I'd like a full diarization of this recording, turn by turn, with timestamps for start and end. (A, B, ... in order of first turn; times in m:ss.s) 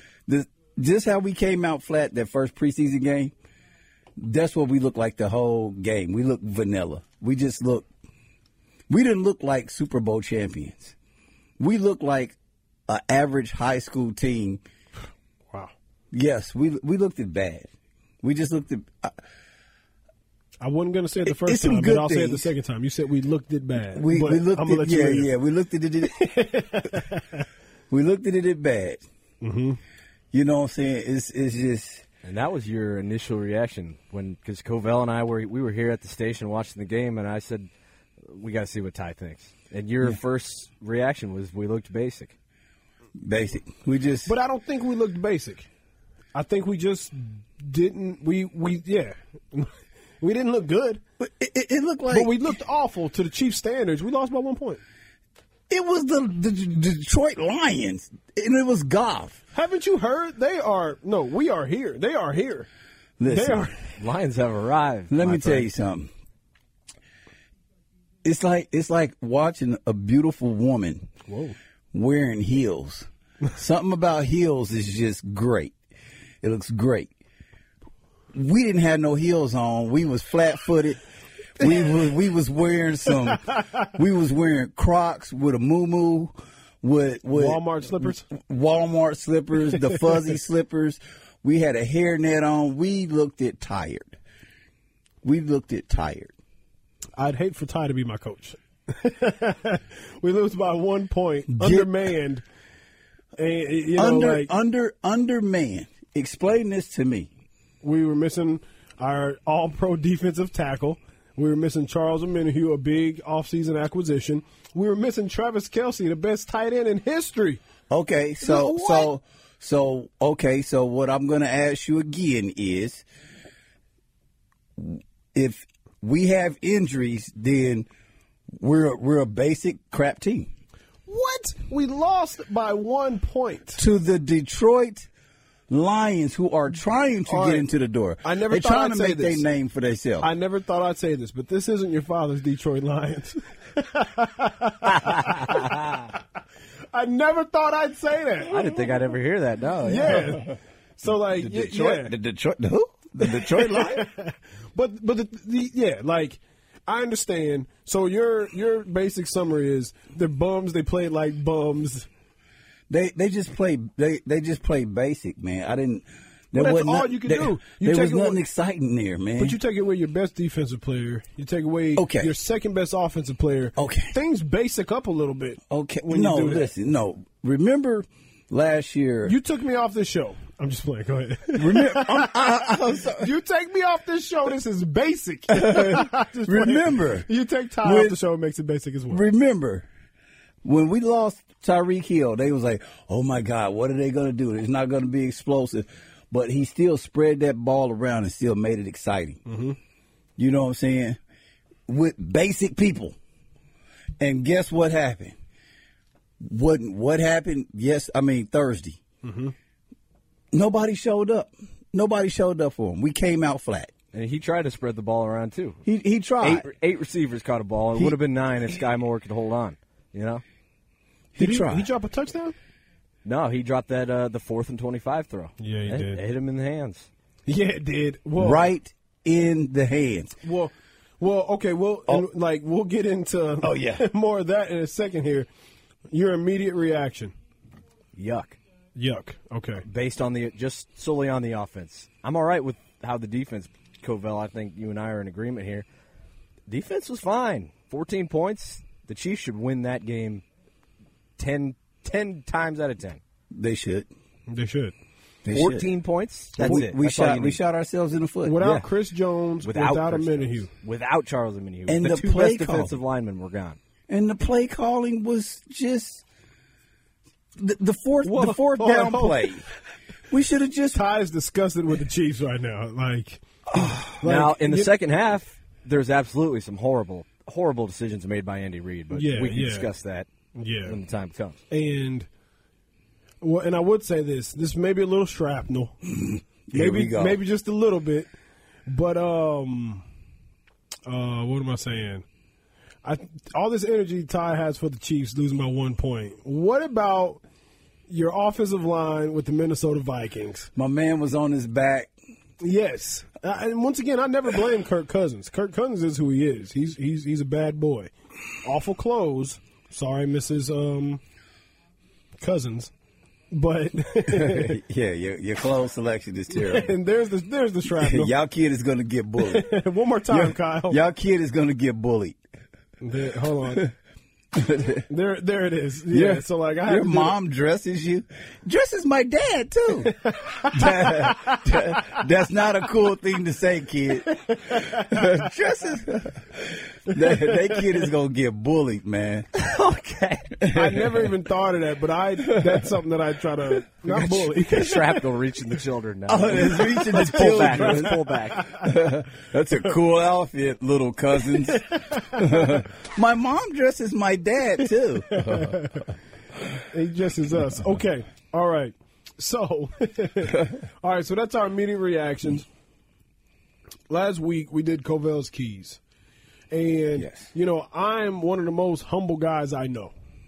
0:00.3-0:03.3 A
0:04.2-0:07.9 A
0:08.9-0:11.0 A
0:11.6-0:12.4 A
0:12.9-0:14.6 A
0:16.1-0:17.7 A
0:18.2-0:19.2 A
0:20.6-0:25.3 B
0:21.2-0:22.5 A
0:23.9-0:26.2 A
0:26.0-0:27.4 B
0:27.9-0:29.0 A
0:29.4-0:29.8 B
0:30.3-0:32.0 A
0:32.2-0:37.7 C
0:38.2-0:42.3 C
0:43.2-0:44.3 A
0:44.3-0:45.7 B
0:46.3-0:51.0 B
0:51.2-0:52.3 A
0:52.1-0:54.8 B
0:55.7-0:59.4 A
0:59.5-1:02.7 B
1:03.2-1:03.7 A
1:03.3-1:03.7 B
1:04.0-1:05.7 C
1:05.1-1:06.1 A
1:08.2-1:11.1 A
1:11.3-1:11.6 B
1:11.9-1:15.8 A
1:16.4-1:17.1 A
1:18.3-1:21.0 A
1:21.6-1:34.2 A
1:27.3-1:28.3 B
1:35.2-1:36.3 A
1:37.2-1:42.4 B
1:41.5-1:42.0 A
1:43.4-1:44.5 B
1:44.0-1:47.3 A
1:47.8-1:57.6 B
1:57.9-2:03.0 A
1:58.4-1:59.1 B
2:04.8-2:07.9 A
2:08.5-2:10.5 A
2:11.1-2:13.8 B
2:13.8-2:15.1 A
2:15.7-2:20.3 A
2:17.3-2:17.7 B
2:18.2-2:19.4 B
2:20.2-2:26.1 B
2:26.9-2:28.9 B
2:28.5-2:30.4 C
2:29.8-2:32.1 B
2:31.3-2:34.0 A
2:33.2-2:42.1 B
2:42.9-2:49.6 A
2:46.5-2:48.4 B
2:49.4-2:56.7 B
2:52.0-2:52.3 A
2:53.8-2:54.1 A
2:55.7-2:59.4 A
2:59.2-3:09.2 B
3:01.6-3:03.3 A
3:05.5-3:07.3 A
3:07.8-3:08.2 A
3:09.1-3:09.9 A
3:10.6-3:19.4 A
3:19.5-3:19.8 B
3:20.4-3:21.2 A
3:21.9-3:23.2 A
3:24.2-3:25.4 A
3:26.4-3:29.0 A
3:29.2-3:29.5 B
3:30.5-3:33.9 A
3:34.1-3:35.8 C
3:35.8-3:36.7 A
3:36.4-3:40.4 C
3:41.3-3:41.9 A
3:41.4-3:42.6 B
3:43.2-3:47.1 C
3:45.6-3:46.2 B
3:47.5-3:48.7 B
3:48.4-3:50.4 A
3:50.4-3:55.5 B
3:53.6-3:54.1 A
3:56.1-3:57.3 B
3:58.2-3:58.6 C
3:59.0-3:59.8 B
3:59.9-4:05.8 C
4:06.7-4:10.4 C
4:11.4-4:13.2 C
4:13.6-4:14.1 A
4:14.5-4:14.9 B
4:15.4-4:15.9 A
4:15.5-4:17.6 C
4:16.6-4:18.6 A
4:18.4-4:20.7 B
4:18.6-4:18.9 C
4:19.6-4:23.8 C
4:21.9-4:23.0 A
4:24.1-4:26.2 A
4:27.6-4:29.7 A
4:28.2-4:29.5 B
4:30.3-4:31.0 A
4:30.9-4:34.9 B
4:33.8-4:34.0 A
4:34.2-4:40.3 C
4:39.1-4:39.9 B
4:40.6-4:41.0 B
4:40.9-4:41.6 C
4:41.7-4:42.3 B
4:43.4-4:46.0 B
4:46.7-4:47.4 A
4:46.7-4:48.3 B
4:48.9-4:50.0 B
4:51.1-4:52.2 B
4:53.0-4:57.4 B
4:58.1-5:00.7 B
5:00.8-5:02.1 A
5:02.6-5:08.1 B
5:08.6-5:11.2 B
5:12.4-5:12.9 B
5:13.5-5:14.8 B
5:14.3-5:16.9 A
5:16.6-5:18.4 B
5:17.9-5:19.7 A
5:19.4-5:21.0 B
5:20.3-5:22.4 A
5:23.0-5:23.9 B
5:24.5-5:25.0 A
5:25.1-5:27.4 B
5:26.1-5:39.5 A
5:30.0-5:31.8 B
5:34.3-5:35.4 B
5:37.3-5:37.6 B
5:39.5-5:40.6 C
5:40.6-5:41.3 A
5:40.7-5:45.2 B
5:42.5-5:42.8 A
5:44.1-5:48.7 C
5:46.3-5:56.0 A
5:46.7-5:48.9 B
5:52.1-5:52.7 B
5:55.3-5:56.1 B
5:56.9-6:02.7 B
6:04.1-6:06.0 B
6:06.7-6:10.1 B
6:07.2-6:07.4 A